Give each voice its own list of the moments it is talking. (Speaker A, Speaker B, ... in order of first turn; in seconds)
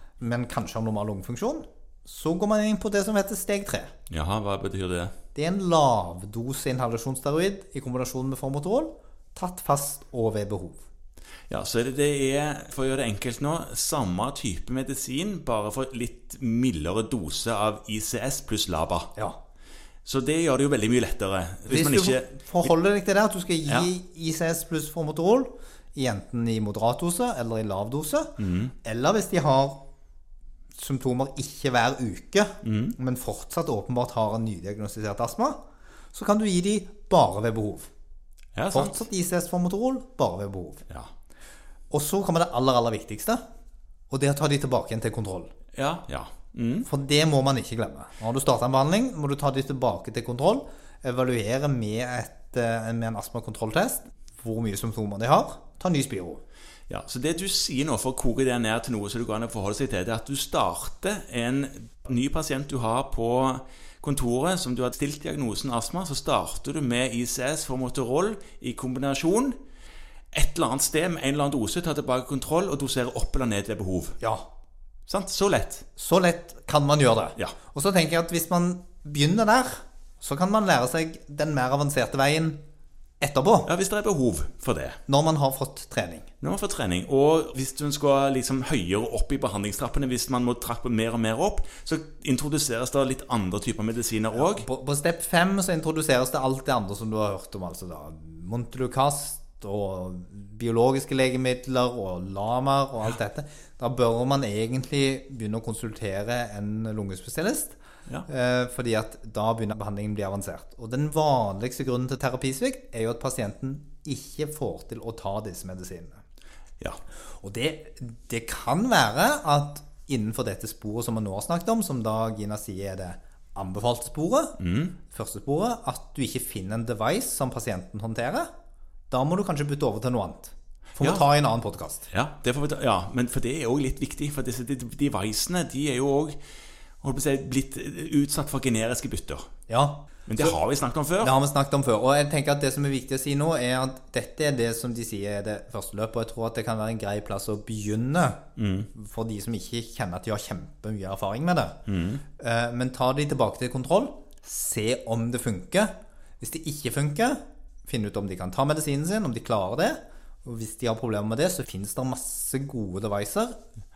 Speaker A: 0.2-3.9, 5.3-10.8, 21.7-29.8, 30.8-35.6, 36.1-37.9, 38.7-40.9, 41.9-43.4, 44.1-45.5, 46.9-56.4, 76.0-82.6, 83.2-83.7, 85.1-86.3, 94.4-116.2, 117.4-124.6, 125.1-128.5, 129.1-132.1, 139.7-140.1, 141.2-148.4, 148.9-151.8, 152.4-163.6
Speaker B: 4.1-5.1, 11.5-19.1, 20.1-22.7, 28.4-28.7, 32.6-33.0, 38.5-39.0, 45.8-46.9, 56.9-69.6, 70.3-74.2, 75.1-75.9, 83.7-85.0, 86.4-94.7, 124.6-125.0, 132.1-136.4, 137.0-139.5, 140.3-141.3, 148.6-148.9, 151.9-152.2